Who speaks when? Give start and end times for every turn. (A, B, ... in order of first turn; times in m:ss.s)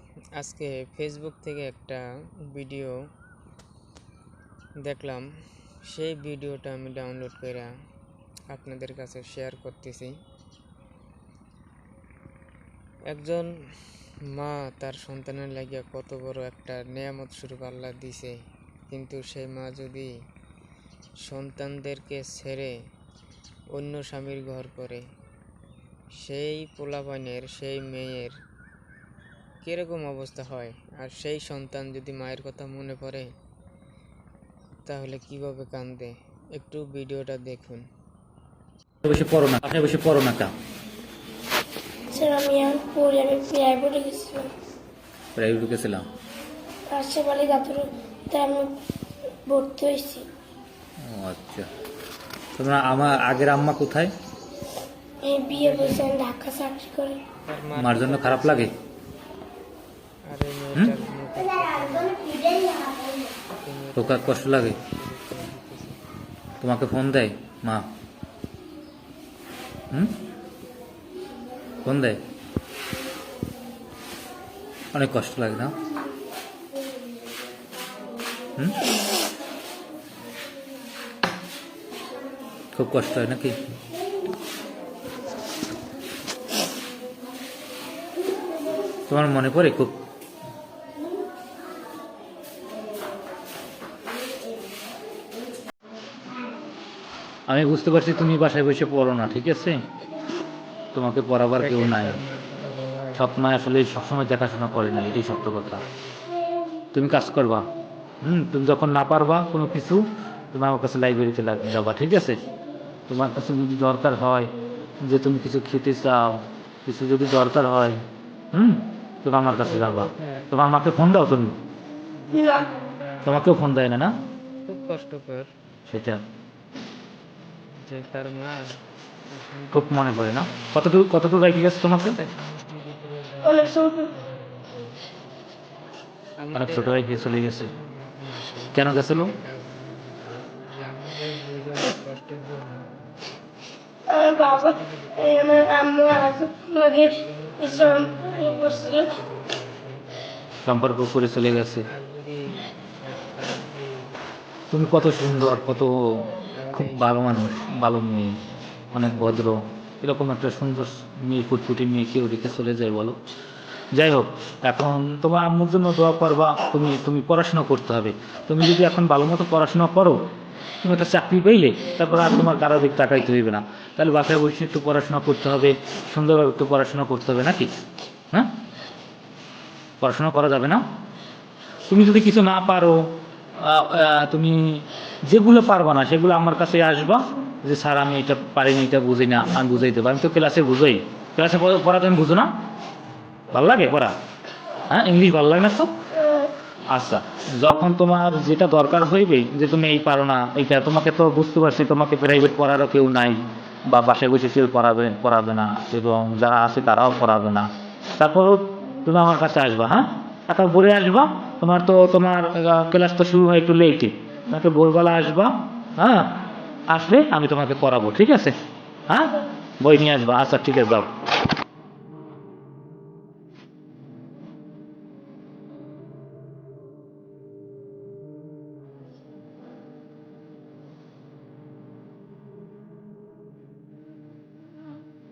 0:00.4-0:03.0 A
0:04.8-0:05.3 A
0:05.9-0:07.7 A
0:08.5-0:10.2 A
0:13.1-0:13.5 A
0:14.3-0:18.4 A
0:18.9-0:20.1 A
0:21.2-0:22.7 A
0:23.7-0:25.0 A
0:26.2-0:28.4 A
0:29.6-0:33.3 A
0:34.8-0:37.8 A
0:39.0-0:40.5 B
0:42.1-0:44.5 C
0:45.3-0:46.0 B
0:46.9-0:48.8 C
0:49.4-0:50.3 C
0:51.0-0:51.7 B
0:52.6-0:54.1 B
0:55.2-0:57.2 C
0:55.5-0:56.1 A
0:57.4-0:58.7 A
0:57.7-0:58.8 B
1:00.3-1:02.5 A
1:03.5-1:06.0 A
1:04.0-1:04.8 B
1:06.6-1:07.9 B
1:09.9-1:10.2 B
1:11.8-1:12.2 B
1:14.9-1:15.8 B
1:22.8-1:23.6 B
1:29.1-1:30.0 B
1:37.5-1:39.8 B
1:40.9-1:42.2 B
1:41.6-1:43.2 A
1:43.2-1:45.8 B
1:46.9-1:47.7 B
1:48.2-1:52.4 B
1:53.1-1:54.5 B
1:55.0-2:01.6 B
2:02.3-2:02.7 A
2:03.2-2:04.1 B
2:04.6-2:05.5 A
2:05.9-2:06.2 B
2:07.8-2:08.8 A
2:09.3-2:10.0 A
2:09.7-2:12.2 B
2:12.1-2:15.0 A
2:16.4-2:17.1 A
2:16.5-2:17.7 B
2:17.7-2:22.9 A
2:18.7-2:19.3 B
2:24.1-2:29.2 C
2:24.6-2:25.6 A
2:27.1-2:30.1 A
2:30.6-2:31.9 B
2:31.9-2:34.1 A
2:34.7-2:38.4 B
2:36.4-2:37.2 A
2:38.9-2:43.2 B
2:43.9-2:50.2 B
2:50.8-2:57.7 B
3:00.0-3:00.8 B
3:01.9-3:12.5 B
3:13.5-3:14.1 B
3:14.9-3:15.9 B
3:16.9-3:38.6 B
3:39.1-3:41.1 B